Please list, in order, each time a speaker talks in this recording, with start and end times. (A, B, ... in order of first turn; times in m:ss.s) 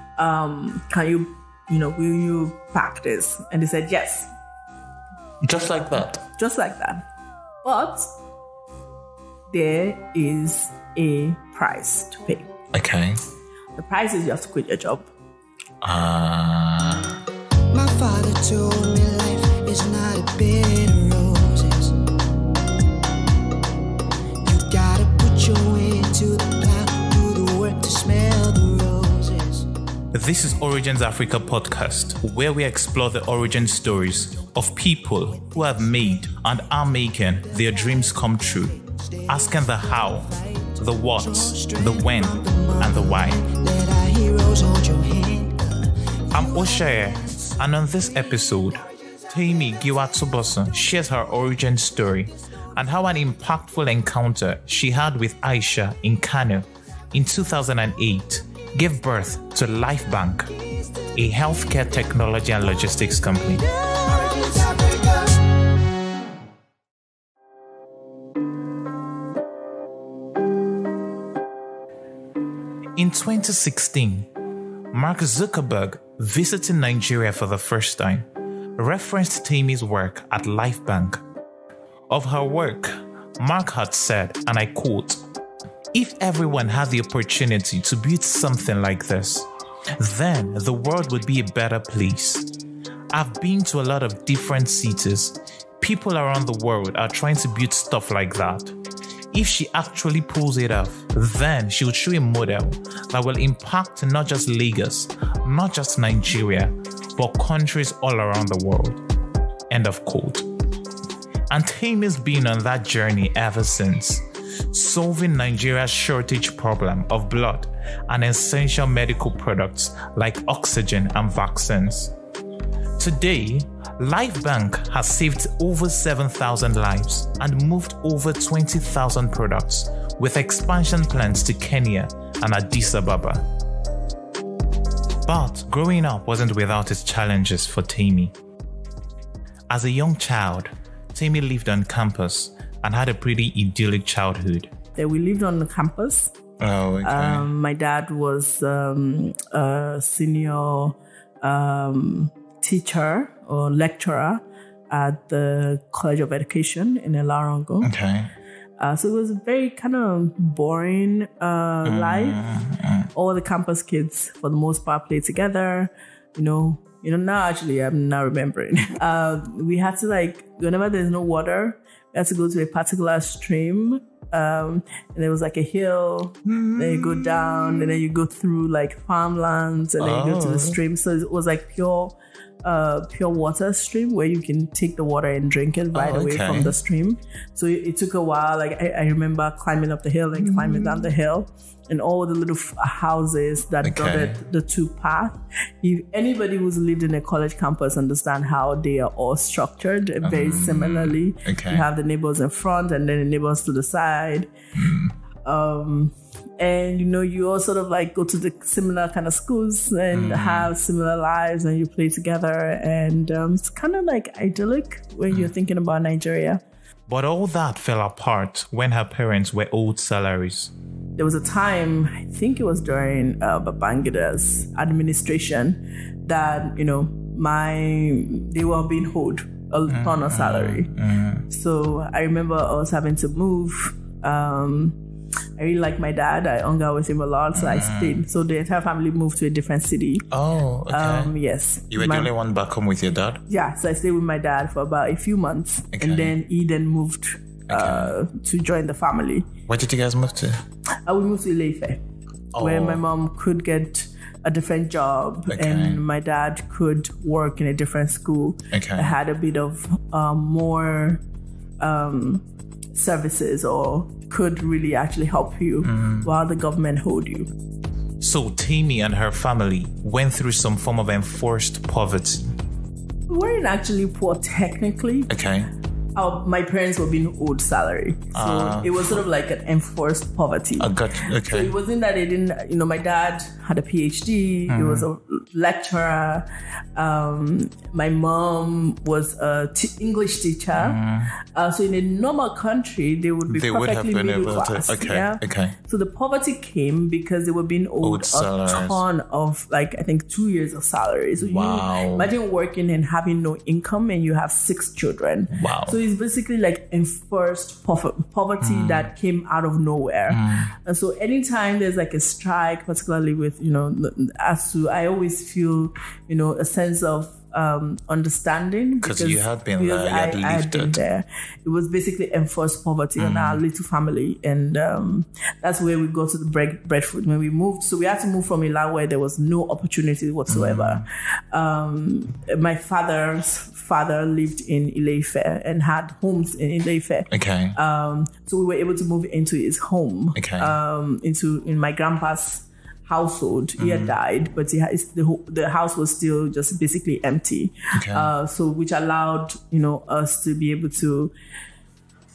0:00.2-0:04.3 A
0:05.4-0:06.2 B
0:06.4-0:07.1 A
0:07.6-0:08.1 A
0:09.5-0:12.5 A
0:12.7-0:13.2 B
0:13.8-0:15.1 A
0:15.8-0:17.2 B
0:17.7-0:22.0 C
0:24.4-0:29.7 C
0:30.1-0:43.4 B
0:35.3-0:36.3 C
0:37.5-0:50.0 C
0:46.3-1:00.5 B
1:00.7-1:01.5 C
1:01.1-1:03.6 B
1:03.5-1:05.5 C
1:13.0-1:14.3 B
1:14.9-1:21.2 B
1:22.1-1:25.2 B
1:25.9-1:32.5 B
1:33.1-1:38.8 B
1:39.3-1:49.0 B
1:49.7-1:50.5 B
1:51.5-2:02.1 B
2:03.0-2:13.4 B
2:15.3-2:18.3 B
2:19.7-2:24.7 B
2:25.0-2:26.4 A
2:26.6-2:27.5 B
2:27.0-2:37.9 A
2:37.8-2:38.3 B
2:38.8-2:42.4 A
2:41.8-2:43.1 B
2:43.1-3:24.5 A
2:56.4-2:57.9 B
3:00.0-3:00.8 B
3:05.9-3:06.7 B
3:10.4-3:11.0 B
3:13.8-3:14.4 B
3:20.2-3:21.9 B
3:24.8-3:25.1 B
3:25.4-3:36.6 A
3:30.1-3:30.7 B
3:37.1-3:40.7 B
3:41.2-3:50.9 A
3:49.9-3:51.5 B
3:51.5-3:55.0 A
3:55.6-4:00.3 A
3:57.5-3:58.2 B
4:00.3-4:01.3 B
4:00.9-4:02.3 A
4:01.9-4:03.4 B
4:03.5-4:09.5 A
4:06.0-4:06.4 B
4:07.7-4:08.1 B
4:09.7-4:10.6 B
4:11.0-4:12.0 A
4:12.5-4:13.0 B
4:12.6-4:21.2 A
4:15.5-4:16.0 B
4:18.7-4:19.2 B
4:21.8-4:27.5 A
4:25.8-4:26.3 B
4:28.2-4:32.5 B
4:33.3-4:35.3 A
4:35.3-4:35.7 B
4:36.2-5:51.3 A
4:38.3-4:39.2 B
4:40.8-4:41.8 B
4:44.7-4:45.1 B
4:50.7-4:51.3 B
4:53.5-4:55.8 B
4:58.0-4:59.0 B
5:01.4-5:02.3 B
5:05.5-5:06.0 B
5:08.6-5:09.1 B
5:10.3-5:10.7 B
5:19.0-5:21.0 B
5:23.2-5:23.6 B
5:30.5-5:31.0 B
5:37.3-5:37.8 B
5:40.4-5:40.8 B
5:43.8-5:44.1 B
5:47.9-5:48.3 B